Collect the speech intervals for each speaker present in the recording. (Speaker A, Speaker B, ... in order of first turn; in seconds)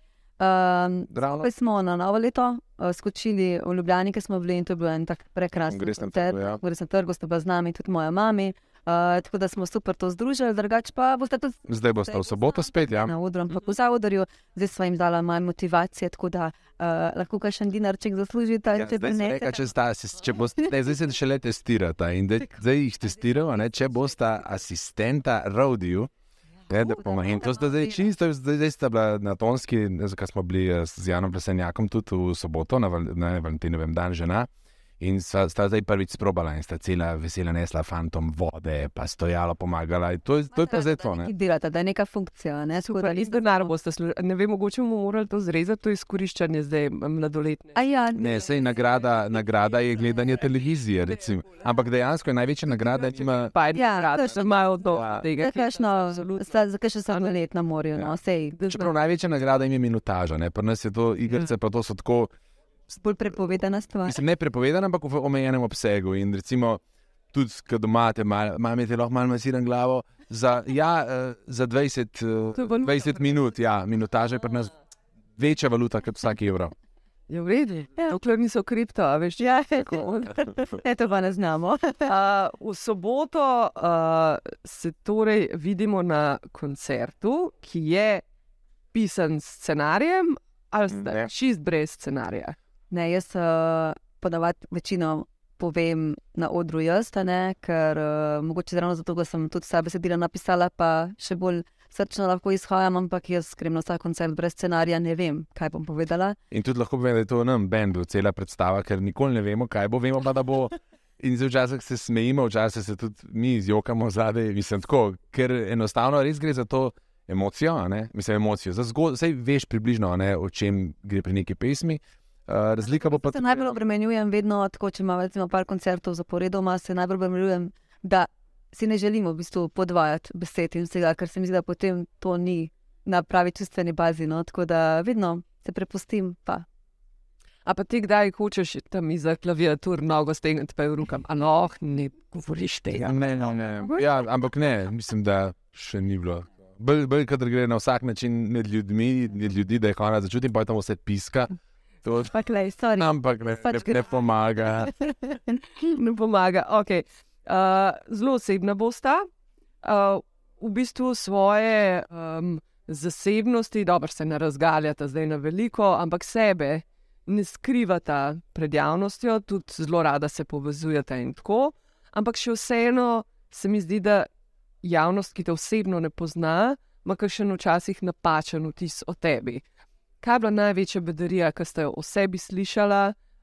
Speaker A: 0.4-19.5, 26.8-28.0, 40.5-43.4, 47.7-48.5, 53.8-54.4, 55.4-58.6, 62.9-64.2, 79.4-82.1, 92.9-106.4, 122.8-136.7, 152.2-153.1, 153.6-154.1, 154.8-155.6
Speaker B: 1.1-1.5, 5.7-6.6, 11.7-13.1, 18.8-26.1, 26.7-34.5, 35.0-41.3, 48.1-53.5, 54.9-55.2, 58.0-62.3, 64.0-74.7, 75.4-76.7, 91.0-91.3, 106.5-123.7, 142.9-151.5, 152.0-152.4, 153.0-155.0
Speaker C: 42.8-47.8, 53.0-56.5, 58.6-58.9, 72.6-73.3, 77.3-79.4, 82.0-88.2, 88.9-92.5, 137.7-143.4, 155.8-159.3, 159.8-174.3, 174.8-179.6, 180.2-183.1